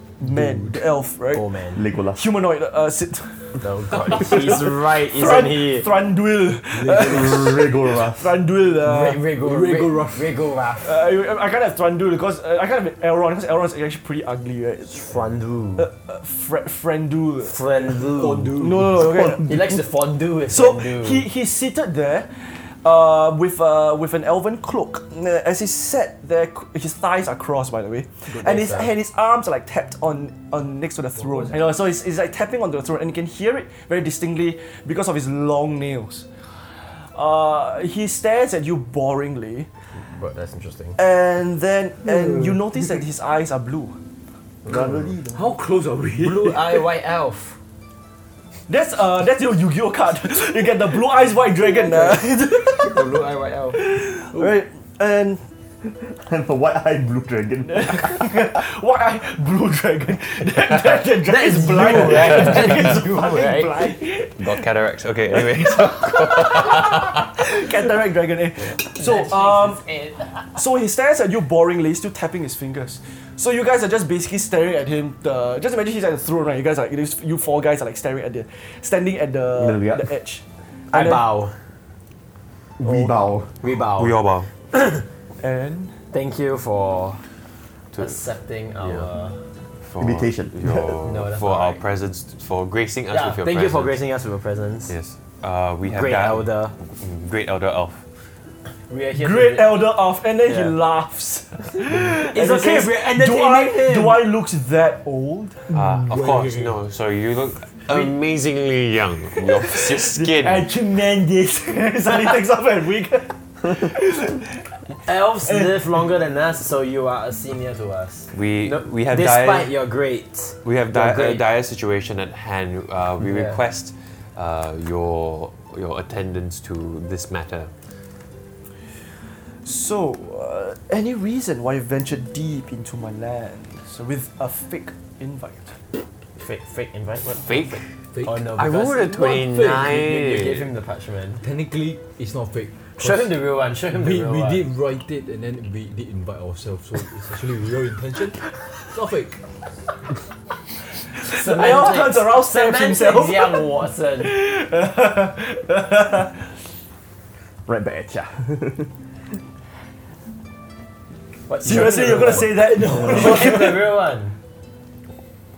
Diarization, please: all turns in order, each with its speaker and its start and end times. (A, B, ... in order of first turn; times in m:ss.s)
0:00.2-0:01.5 A
0:00.3-0:00.8 B
0:01.3-0:01.8 C
0:01.8-0:02.3 D
0:02.2-0:09.3 A
0:03.6-0:05.9 C
0:06.7-0:07.6 B
0:07.0-0:08.4 D
0:08.8-0:11.0 C
0:09.4-0:10.4 B
0:10.8-0:15.1 A
0:14.9-0:15.9 C
0:15.8-0:17.6 A
0:17.4-0:18.6 C
0:18.1-0:19.0 B
0:18.5-0:19.8 A
0:19.0-0:19.6 D
0:19.4-0:21.3 C
0:20.5-0:36.3 A
0:28.3-0:28.9 C
0:31.3-0:31.6 B
0:37.2-0:39.7 A
0:40.0-0:41.0 C
0:41.0-0:44.0 A
0:42.1-0:42.6 D
0:44.6-0:45.5 D
0:44.7-0:45.0 C
0:45.3-0:46.8 B
0:46.2-0:47.6 C
0:48.7-0:53.1 A
0:51.9-0:53.8 C
0:53.7-0:55.4 A
0:56.2-0:58.3 D
0:57.7-1:04.7 A
1:01.2-1:04.0 C
1:02.2-1:02.8 E
1:04.4-1:07.3 E
1:05.3-1:09.8 A
1:08.7-1:10.5 C
1:10.5-1:21.3 A
1:19.6-1:20.1 D
1:20.9-1:21.6 C
1:22.8-1:23.5 D
1:22.8-1:25.1 C
1:23.9-1:24.5 E
1:25.4-1:26.0 A
1:26.1-1:27.2 C
1:27.9-1:28.2 E
1:28.0-1:29.4 C
1:28.8-1:29.1 E
1:29.8-1:34.0 E
1:30.0-1:31.0 D
1:31.0-1:31.8 C
1:33.1-1:34.9 C
1:34.9-1:38.0 E
1:35.8-1:36.8 C
1:38.9-1:39.8 C
1:39.2-1:45.8 A
1:42.2-1:44.2 C
1:45.7-1:50.7 E
1:46.2-1:46.6 C
1:49.6-1:54.6 A
1:55.0-2:01.4 C
1:55.4-1:56.0 A
1:58.3-1:59.8 E
2:00.6-2:07.7 E
2:03.2-2:03.6 C
2:09.6-2:15.8 A
2:16.4-2:17.6 C
2:17.2-2:18.0 E
2:18.1-2:18.4 B
2:18.2-2:21.4 C
2:18.5-2:20.7 E
2:21.4-2:23.4 B
2:23.0-2:24.7 C
2:23.9-2:29.4 B
2:31.3-2:34.3 C
2:31.3-2:36.3 A
2:37.7-2:38.9 D
2:41.5-2:44.4 C
2:41.6-2:44.0 A